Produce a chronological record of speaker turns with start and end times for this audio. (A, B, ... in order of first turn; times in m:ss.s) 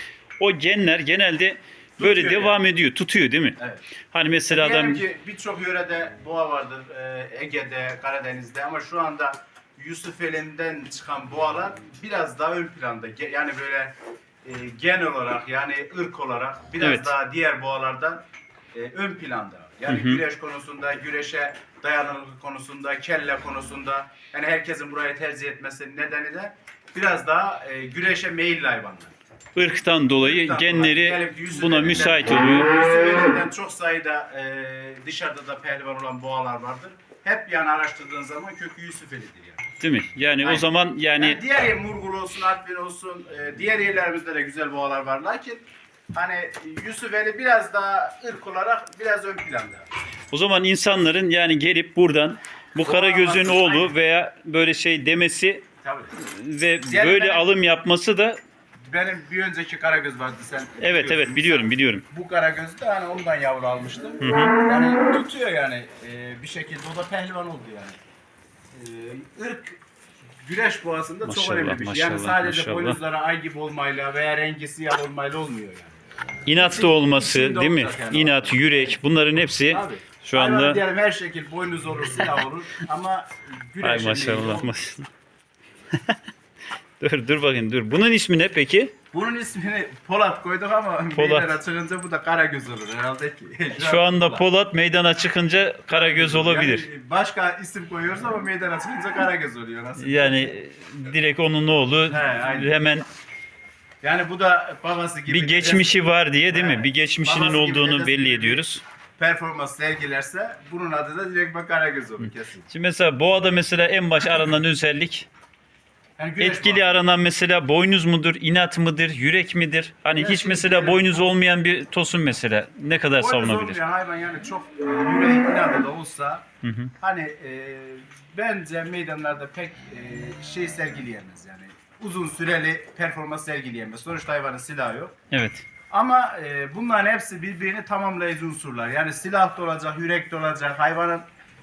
0:00.4-0:05.0 A
0:02.0-0:02.6 B
0:03.6-0:03.8 B
0:04.5-0:29.1 B
0:16.8-0:17.1 A
0:19.9-0:20.2 A
0:29.6-0:32.7 A
0:30.2-0:39.6 B
0:39.8-0:41.4 A
0:40.4-0:49.9 B
0:50.3-0:55.7 A
0:52.8-0:53.9 B
0:55.8-0:56.1 B
0:56.2-0:58.4 A
0:56.9-0:57.5 B
0:58.8-1:08.0 B
1:00.8-1:02.0 A
1:04.2-1:04.6 A
1:08.7-1:09.8 B
1:10.4-1:19.0 B
1:11.2-1:13.0 A
1:16.5-1:20.8 A
1:19.7-1:24.7 B
1:23.8-1:25.1 A
1:27.0-1:28.9 A
1:29.1-1:34.4 B
1:31.2-1:31.5 A
1:33.8-1:36.9 A
1:35.9-1:40.5 B
1:40.0-1:43.0 A
1:42.1-1:42.7 B
1:44.0-1:48.6 B
1:45.3-1:48.8 A
1:49.2-1:52.7 B
1:52.7-1:55.3 A
1:56.2-1:57.0 B
1:56.4-2:03.8 A
2:00.1-2:01.3 B
2:03.2-2:06.4 B
2:06.6-2:06.9 A
2:07.0-2:15.2 B
2:15.3-2:15.7 A
2:15.9-2:21.3 B